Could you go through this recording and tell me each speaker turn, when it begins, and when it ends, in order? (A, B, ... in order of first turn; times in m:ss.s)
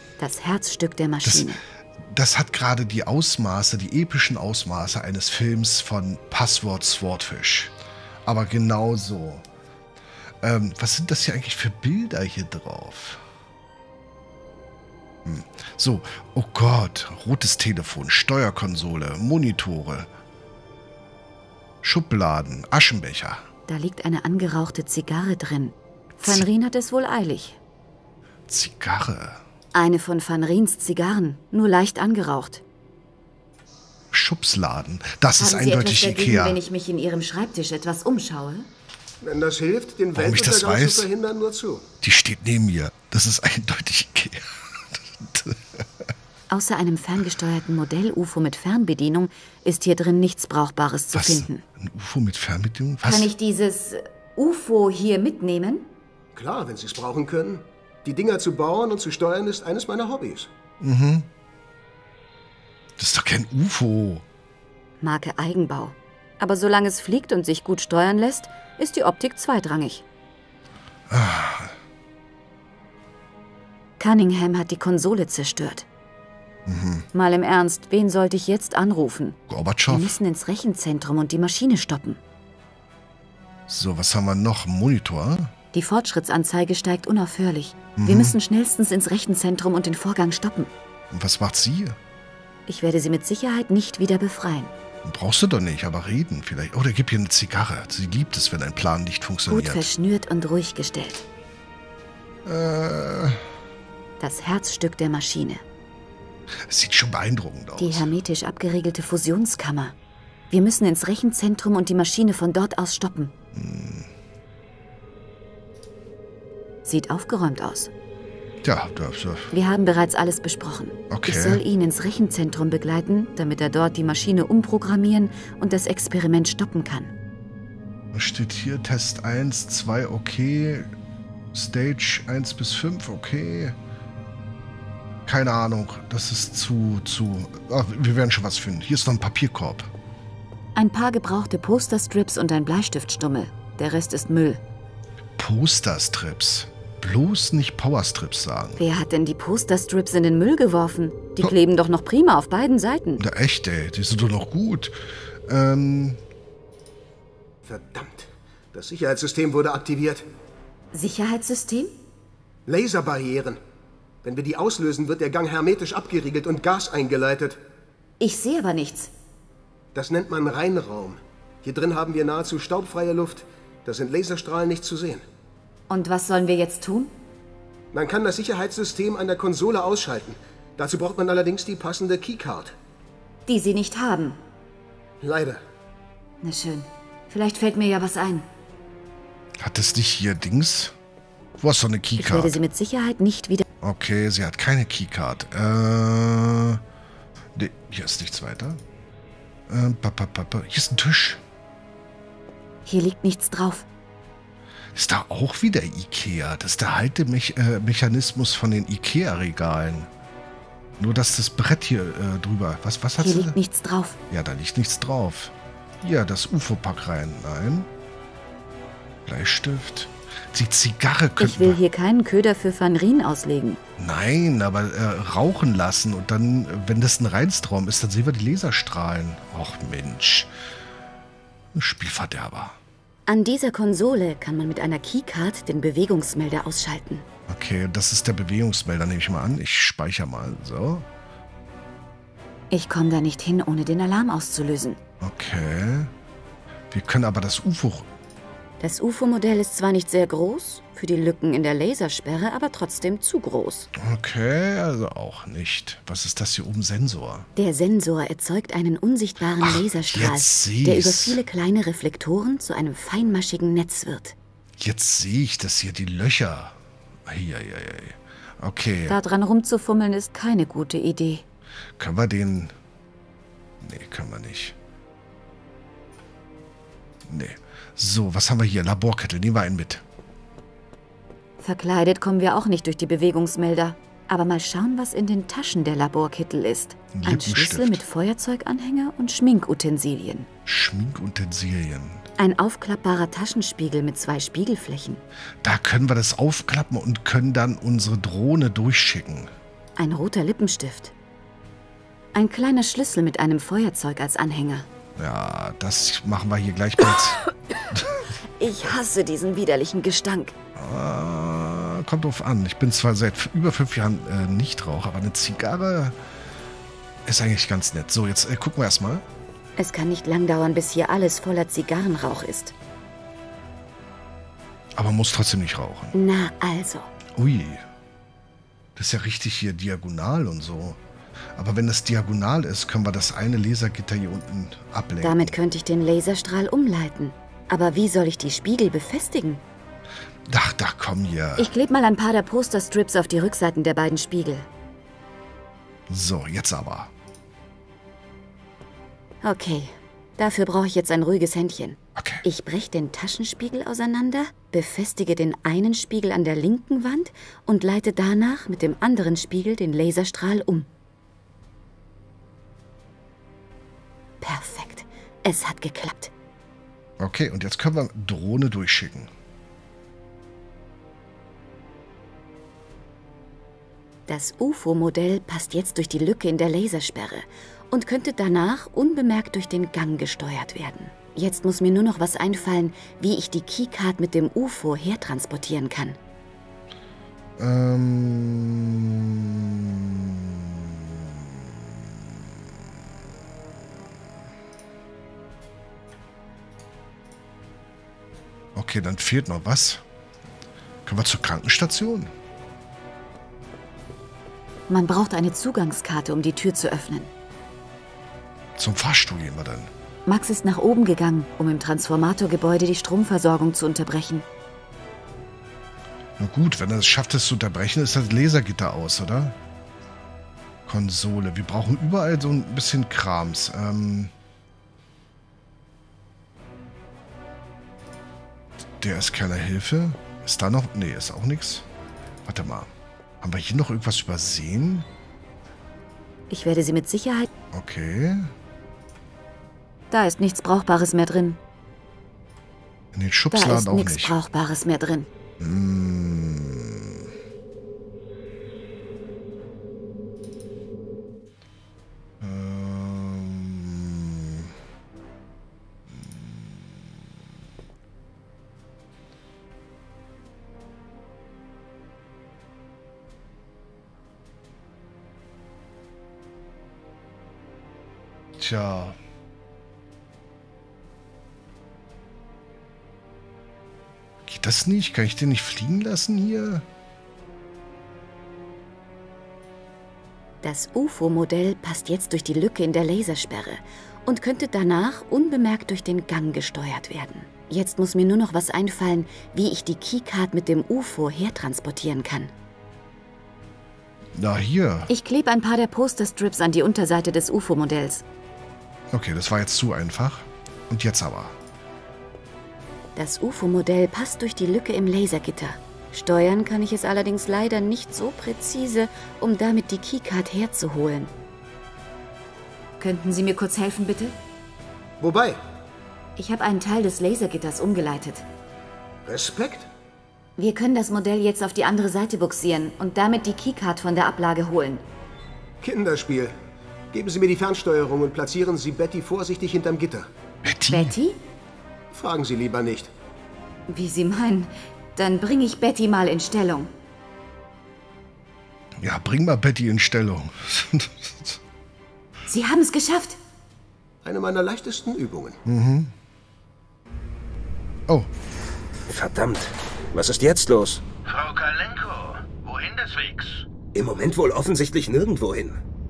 0:00.2-0:01.6 A
0:01.2-0:09.4 B
0:10.4-0:13.2 B
0:15.2-0:20.1 B
0:21.8-0:23.5 B
0:23.7-0:27.6 A
0:28.5-0:29.4 B
0:29.7-0:32.6 A
0:34.1-0:36.6 B
0:35.4-0:38.7 A
0:39.2-0:41.9 C
0:40.1-0:41.1 B
0:42.0-0:45.8 B
0:46.5-0:51.6 A
0:51.1-0:53.3 B
0:53.0-0:55.9 A
0:56.4-1:00.5 C
1:00.8-1:01.3 B
1:03.0-1:04.2 B
1:05.0-1:10.0 A
1:11.1-1:11.7 B
1:14.0-1:15.9 A
1:16.7-1:17.1 B
1:17.1-1:19.4 A
1:19.5-1:20.2 B
1:19.9-1:22.2 A
1:23.7-1:25.5 B
1:25.7-1:30.7 A
1:28.0-1:28.4 B
1:31.1-1:32.0 B
1:32.7-1:34.7 A
1:35.0-1:39.9 B
1:39.5-1:41.2 A
1:42.4-1:43.4 B
1:44.2-1:45.6 A
1:46.7-1:48.1 B
1:47.8-1:50.0 A
1:50.5-1:53.3 A
1:53.5-1:54.1 B
1:56.8-1:57.9 A
1:58.6-1:59.5 B
1:59.5-2:07.1 A
2:01.1-2:01.6 B
2:08.1-2:10.9 B
2:11.5-2:13.8 B
2:15.3-2:19.9 B
2:20.8-2:24.6 A
2:25.4-2:28.8 B
2:28.8-2:33.2 A
2:33.2-2:35.0 B
2:35.5-2:36.2 B
2:37.7-2:40.2 C
2:40.9-2:41.9 A
2:42.7-2:43.6 C
2:44.2-2:47.6 C
2:48.2-2:49.1 A
2:50.0-2:55.2 C
2:55.9-2:57.1 A
2:57.9-3:02.8 C
3:03.5-3:04.4 A
3:05.2-3:05.6 C
3:06.4-3:08.5 A
3:09.6-3:11.0 B
3:11.6-3:12.6 B
3:12.2-3:13.6 A
3:13.8-3:16.8 B
3:17.6-3:18.8 B
3:19.7-3:21.4 B
3:22.9-3:23.9 A
3:25.0-3:30.1 B
3:31.0-3:33.6 B
3:33.2-3:34.2 A
3:34.3-3:37.9 B
3:39.3-3:41.8 B
3:41.4-3:43.8 A
3:44.0-3:50.5 B
3:51.7-3:52.8 B
3:53.3-3:57.2 A
3:57.5-4:01.1 B
4:02.7-4:05.0 A
4:05.2-4:06.1 B
4:06.9-4:08.1 B
4:08.8-4:13.9 A
4:14.0-4:17.5 B
4:17.6-4:24.4 A
4:19.6-4:21.4 B
4:24.8-4:29.2 B
4:29.1-4:31.4 A
4:32.0-4:32.7 B
4:33.8-4:34.8 B
4:37.3-4:40.0 B
4:41.6-4:50.5 A
4:47.1-4:48.0 B
4:50.7-4:52.2 B
4:52.4-4:55.2 A
4:55.6-4:59.5 B
5:00.0-5:01.1 A
5:02.3-5:04.9 A
5:05.2-5:08.2 B
5:08.6-5:10.5 A
5:10.8-5:16.2 B
5:17.2-5:19.2 B
5:19.8-5:22.7 A
5:25.0-5:26.1 B
5:26.1-5:27.1 A
5:27.4-5:27.8 B
5:29.0-5:31.0 B
5:31.6-5:35.6 B
5:35.2-5:39.6 A
5:40.5-5:41.7 B
5:41.6-5:44.7 A
5:46.1-5:47.1 B
5:49.4-6:00.9 A
5:52.2-5:52.4 B
6:04.4-6:06.3 A
6:07.2-6:09.3 B
6:14.3-6:26.2 A
6:27.6-6:32.6 B
6:38.8-6:40.0 B
6:41.0-6:42.3 B
6:44.9-6:47.3 A
6:48.8-6:49.9 B
6:50.3-6:54.5 A
6:56.4-6:59.6 B
7:00.9-7:04.3 B
7:09.0-7:11.8 B
7:12.5-7:12.9 B
7:13.4-7:15.1 B
7:16.5-7:17.5 A
7:17.7-7:18.5 B
7:20.1-7:21.6 A
7:23.1-7:24.4 B
7:23.5-7:25.3 A
7:25.6-7:27.2 B
7:32.4-7:34.7 B
7:36.1-7:37.2 B
7:48.6-7:49.2 B
7:54.4-7:56.8 B
8:00.6-8:12.5 A
8:14.4-8:15.1 B
8:15.1-8:18.2 A
8:19.1-8:21.6 B
8:23.2-8:31.3 A
8:33.0-8:34.4 A
8:35.2-8:35.6 C
8:36.4-8:38.4 A
8:39.3-8:39.9 C
8:40.6-8:45.0 A
8:45.8-8:46.5 C
8:47.1-8:50.3 C
8:50.6-8:51.2 B
8:50.9-8:51.4 A
8:52.1-8:53.1 C
8:53.9-8:56.9 A
8:59.0-9:01.6 B
9:02.5-9:03.4 A
9:04.2-9:05.6 C
9:05.7-9:06.1 B
9:09.1-9:11.0 D
9:11.2-9:13.7 E
9:13.9-9:15.8 D